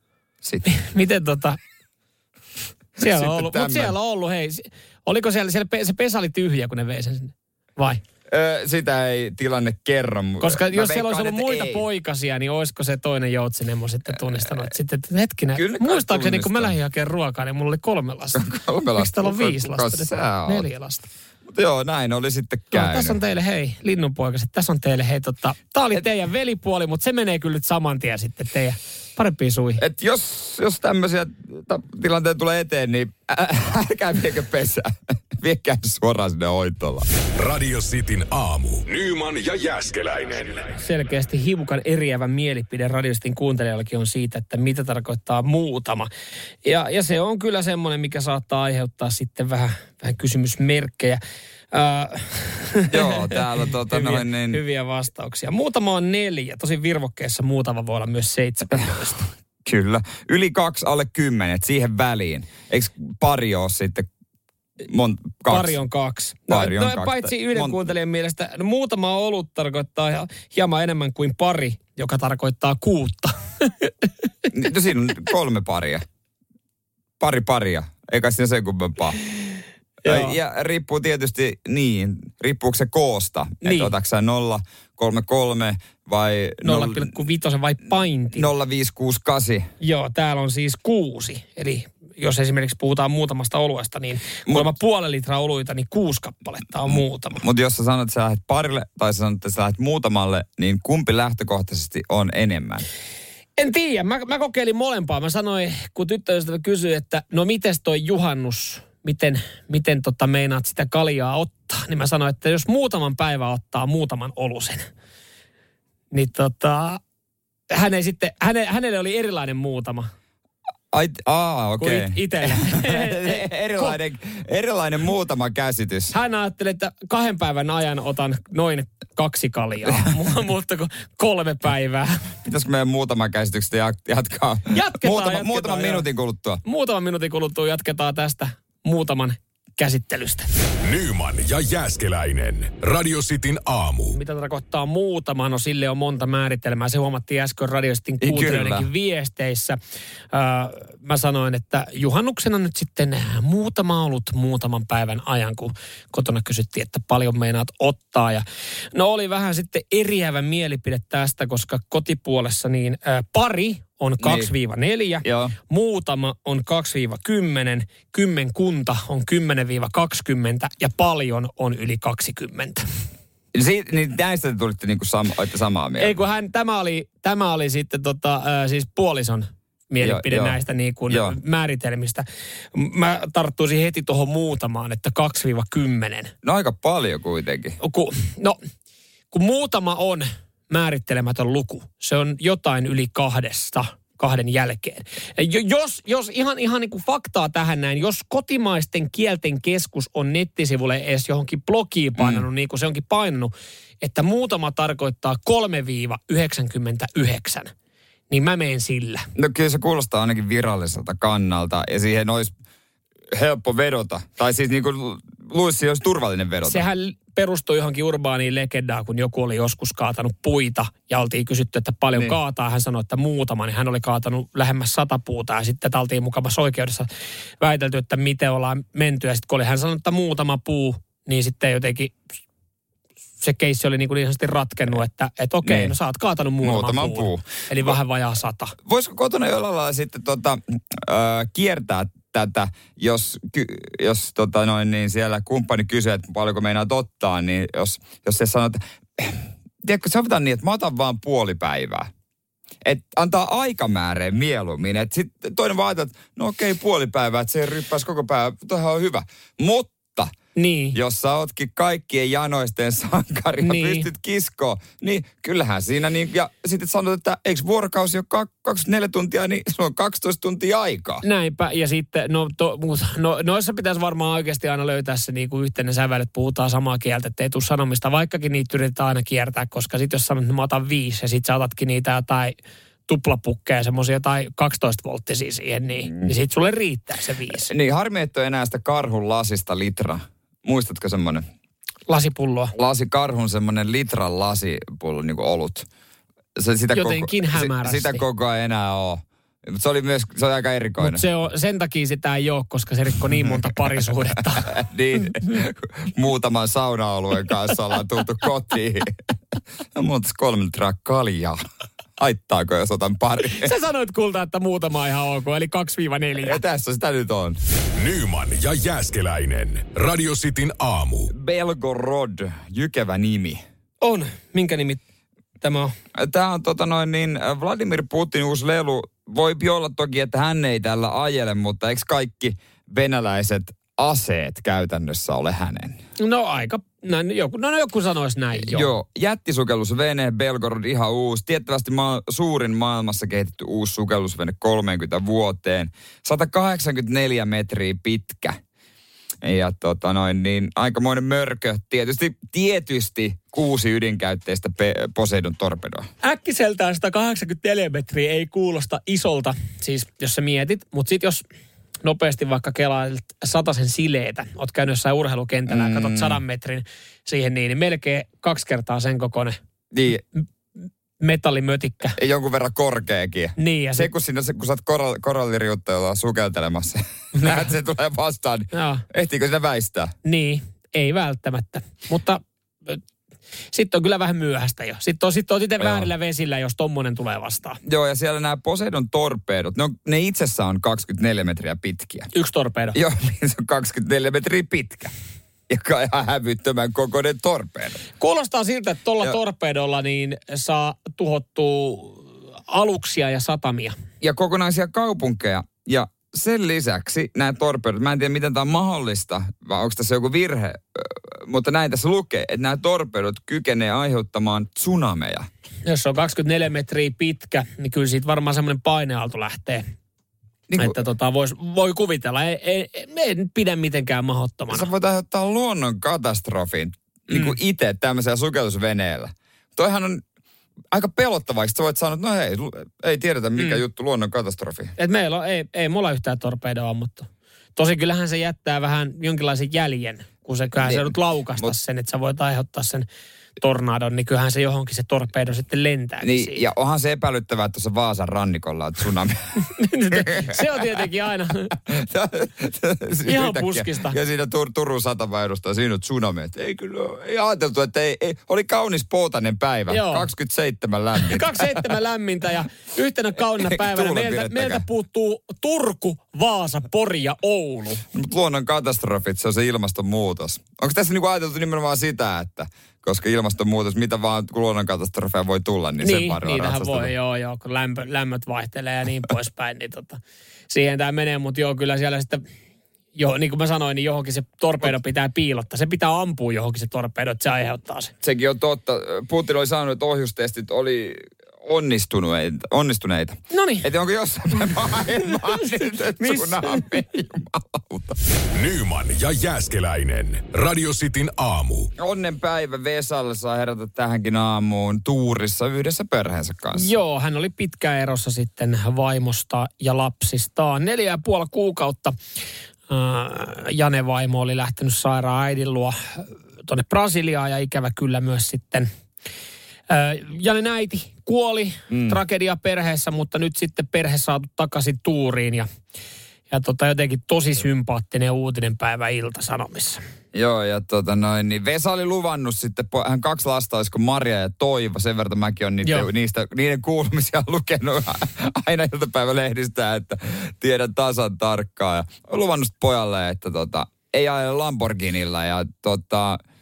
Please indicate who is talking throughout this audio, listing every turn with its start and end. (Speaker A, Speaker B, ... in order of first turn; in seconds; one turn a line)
Speaker A: 0.6-1.6
Speaker B: 3.0-3.9
Speaker A: 3.0-8.0
Speaker B: 8.3-11.8
Speaker A: 10.4-18.4
Speaker B: 15.5-16.7
Speaker B: 18.3-20.7
Speaker A: 18.9-21.1
Speaker B: 21.5-23.2
Speaker A: 22.7-29.8
Speaker B: 29.8-37.1
Speaker C: 37.3-40.7
Speaker A: 40.8-46.1
Speaker A: 46.6-51.2
Speaker A: 51.7-59.3
Speaker B: 52.9-54.6
Speaker B: 59.6-64.1
Speaker B: 64.8-65.8
Speaker A: 65.5-74.1
Speaker B: 66.5-67.8
Speaker B: 74.5-76.0
Speaker B: 77.2-79.2
Speaker A: 80.0-80.3
Speaker B: 80.0-87.1
Speaker A: 83.6-83.9
Speaker A: 86.6-88.5
Speaker B: 88.3-89.7
Speaker A: 89.8-97.4
Speaker B: 96.9-102.8
Speaker A: 103.6-114.8
Speaker A: 116.1-117.0
Speaker A: 117.7-120.1
Speaker B: 120.9-126.1
Speaker A: 121.8-124.0
Speaker A: 126.1-132.3
Speaker B: 132.4-136.6
Speaker A: 134.7-136.1
Speaker A: 136.6-140.5
Speaker C: 140.8-144.2
Speaker A: 144.1-149.8
Speaker B: 148.2-148.9
Speaker A: 150.3-172.8
Speaker B: 164.2-164.5
Speaker B: 165.2-165.5
Speaker B: 173.5-176.2
Speaker A: 176.0-186.3
Speaker B: 180.0-180.6
Speaker B: 181.1-181.3
Speaker B: 186.4-187.8
Speaker A: 187.8-188.6
Speaker A: 189.3-207.7
Speaker B: 202.2-202.4
Speaker A: 208.3-209.3
Speaker B: 209.3-212.5
Speaker B: 213.3-216.8
Speaker A: 216.6-227.1
Speaker A: 227.6-232.2
Speaker A: 233.4-238.7
Speaker B: 235.6-235.9
Speaker B: 236.6-237.9
Speaker B: 238.8-252.1
Speaker B: 252.8-260.3
Speaker A: 260.5-261.0
Speaker B: 260.9-271.2
Speaker A: 263.6-264.1
Speaker A: 271.2-287.7
Speaker B: 287.5-291.4
Speaker A: 292.1-292.7
Speaker B: 292.7-295.9
Speaker B: 296.6-301.2
Speaker A: 296.9-298.2
Speaker A: 301.0-304.8
Speaker B: 304.5-309.1
Speaker B: 309.9-311.6
Speaker B: 312.2-313.7
Speaker A: 313.4-316.6
Speaker B: 316.4-317.6
Speaker C: 317.9-321.3
Speaker B: 321.3-323.6
Speaker A: 324.0-325.0
Speaker A: 325.6-325.9
Speaker B: 326.1-336.0
Speaker A: 336.2-338.9
Speaker B: 338.6-348.6
Speaker B: 349.4-356.1
Speaker A: 356.2-361.4
Speaker A: 362.0-369.6
Speaker B: 365.7-366.4
Speaker B: 369.9-370.2
Speaker A: 371.2-372.2
Speaker B: 372.2-380.1
Speaker A: 373.6-374.1
Speaker A: 377.3-377.6
Speaker A: 378.7-379.0
Speaker A: 380.2-383.0
Speaker A: 383.7-387.8
Speaker B: 385.8-386.1
Speaker B: 387.8-392.3
Speaker A: 392.3-393.0
Speaker B: 392.9-395.1
Speaker B: 395.7-398.0
Speaker A: 398.2-403.9
Speaker B: 404.2-415.5
Speaker A: 415.9-419.8
Speaker B: 420.7-421.0
Speaker A: 420.8-424.9
Speaker B: 424.7-430.2
Speaker A: 427.3-427.6
Speaker B: 430.9-434.9
Speaker A: 435.0-443.1
Speaker B: 440.8-441.7
Speaker A: 443.6-446.6
Speaker B: 446.2-449.4
Speaker A: 449.6-451.8
Speaker B: 450.1-450.7
Speaker B: 451.8-461.9
Speaker A: 453.2-454.2
Speaker A: 459.9-460.3
Speaker A: 461.2-468.0
Speaker B: 463.6-464.8
Speaker B: 468.1-477.1
Speaker A: 476.0-482.4
Speaker A: 483.1-488.1
Speaker B: 488.2-498.2
Speaker A: 493.5-493.9
Speaker A: 495.4-496.8
Speaker C: 498.5-501.9
Speaker B: 502.0-506.9
Speaker A: 506.7-512.1
Speaker A: 512.9-518.9
Speaker A: 519.9-525.7
Speaker B: 521.9-522.2
Speaker A: 526.5-530.0
Speaker B: 530.3-546.4
Speaker A: 535.8-536.1